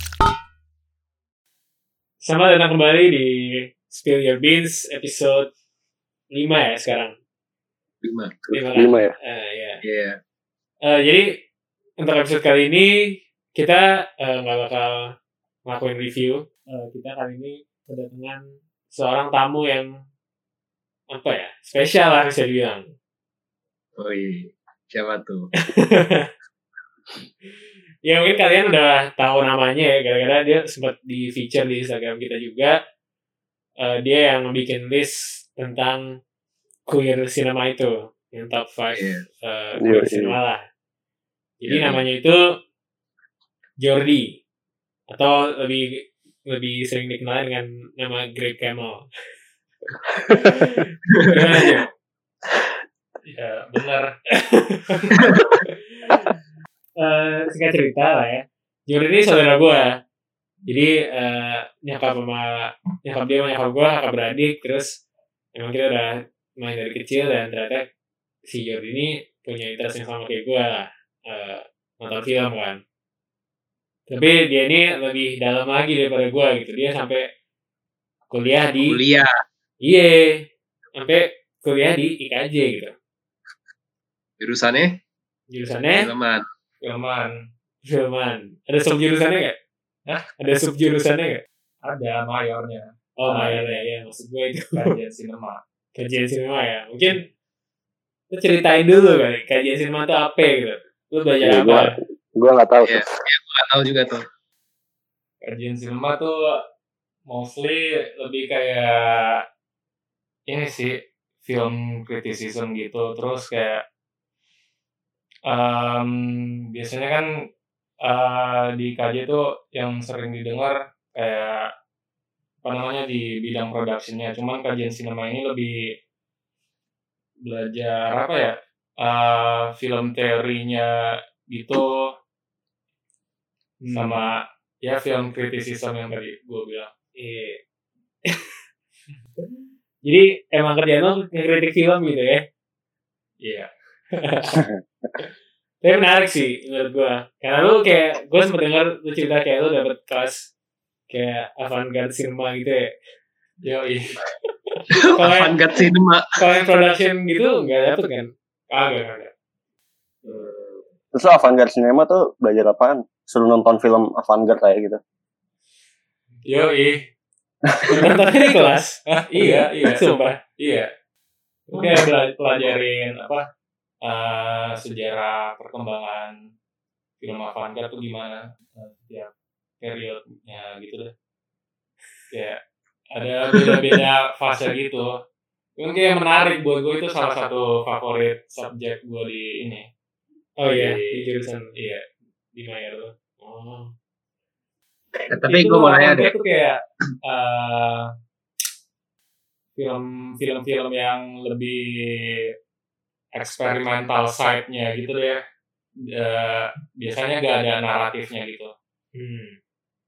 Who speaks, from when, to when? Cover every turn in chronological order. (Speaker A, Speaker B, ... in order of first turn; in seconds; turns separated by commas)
Speaker A: 2.2-5.5, Speaker A: 6.3-7.1, Speaker B: 8.0-8.4, Speaker C: 8.5-9.1, Speaker A: 8.5-9.8, Speaker B: 9.8-10.2, Speaker A: 10.8-11.2, Speaker A: 12.0-12.9, Speaker A: 13.5-15.0, Speaker A: 15.7-18.4, Speaker A: 18.9-19.9, Speaker A: 21.1-22.9, Speaker B: 24.0-25.5, Speaker A: 25.6-26.3, Speaker A: 28.0-32.8, Speaker A: 33.8-36.0, Speaker A: 36.9-40.6, Speaker B: 39.0-39.2, Speaker C: 39.8-40.4, Speaker A: 41.6-42.4, Speaker B: 41.7-42.0, Speaker A: 43.8-44.3, Speaker A: 45.1-49.0, Speaker A: 50.3-51.9, Speaker D: 53.3-54.1, Speaker A: 54.4-56.3, Speaker B: 55.2-55.5, Speaker A: 57.0-59.9, Speaker A: 60.7-65.0, Speaker A: 65.5-67.9, Speaker A: 68.5-72.8, Speaker A: 74.1-77.2, Speaker A: 78.3-79.0, Speaker B: 78.8-79.3, Speaker A: 79.8-80.4, Speaker A: 81.0-82.9, Speaker B: 84.4-84.9, Speaker A: 85.5-86.1, Speaker B: 85.9-86.4, Speaker D: 86.8-87.3, Speaker A: 87.9-89.5, Speaker A: 90.4-91.4, Speaker D: 91.8-93.6, Speaker A: 93.2-94.9, Speaker D: 94.7-95.6, Speaker A: 95.9-97.2, Speaker A: 98.3-101.9, Speaker C: 101.4-103.1, Speaker B: 102.8-104.2, Speaker D: 105.4-106.4, Speaker D: 107.3-109.4, Speaker D: 110.5-113.8, Speaker D: 115.5-116.1, Speaker D: 116.7-117.2, Speaker D: 118.0-121.7, Speaker D: 122.6-125.7, Speaker D: 127.4-130.9, Speaker D: 131.5-132.0, Speaker A: 133.8-134.2, Speaker D: 133.9-134.3, Speaker D: 134.8-136.9, Speaker A: 137.2-137.6, Speaker A: 138.3-138.6, Speaker A: 140.0-142.4, Speaker D: 143.4-143.7, Speaker A: 144.2-144.6, Speaker A: 145.8-150.5, Speaker A: 151.1-152.9, Speaker D: 153.6-154.2, Speaker A: 154.7-155.6, Speaker B: 154.9-156.4, Speaker A: 156.4-158.3, Speaker D: 158.7-159.3, Speaker C: 161.1-165.0, Speaker D: 166.4-167.0, Speaker A: 167.9-170.4, Speaker D: 169.1-170.9, Speaker D: 171.7-173.4, Speaker A: 171.7-172.1, Speaker D: 174.0-176.3, Speaker D: 177.2-179.3, Speaker D: 179.8-181.1, Speaker D: 182.3-182.6, Speaker D: 183.1-185.1, Speaker D: 185.8-189.8, Speaker A: 190.6-191.7, Speaker D: 190.7-191.2, Speaker D: 191.7-192.0, Speaker A: 192.5-193.9, Speaker B: 195.3-196.3, Speaker D: 195.5-198.1, Speaker D: 199.8-202.3, Speaker D: 203.4-205.4, Speaker D: 206.1-208.7, Speaker A: 209.1-209.6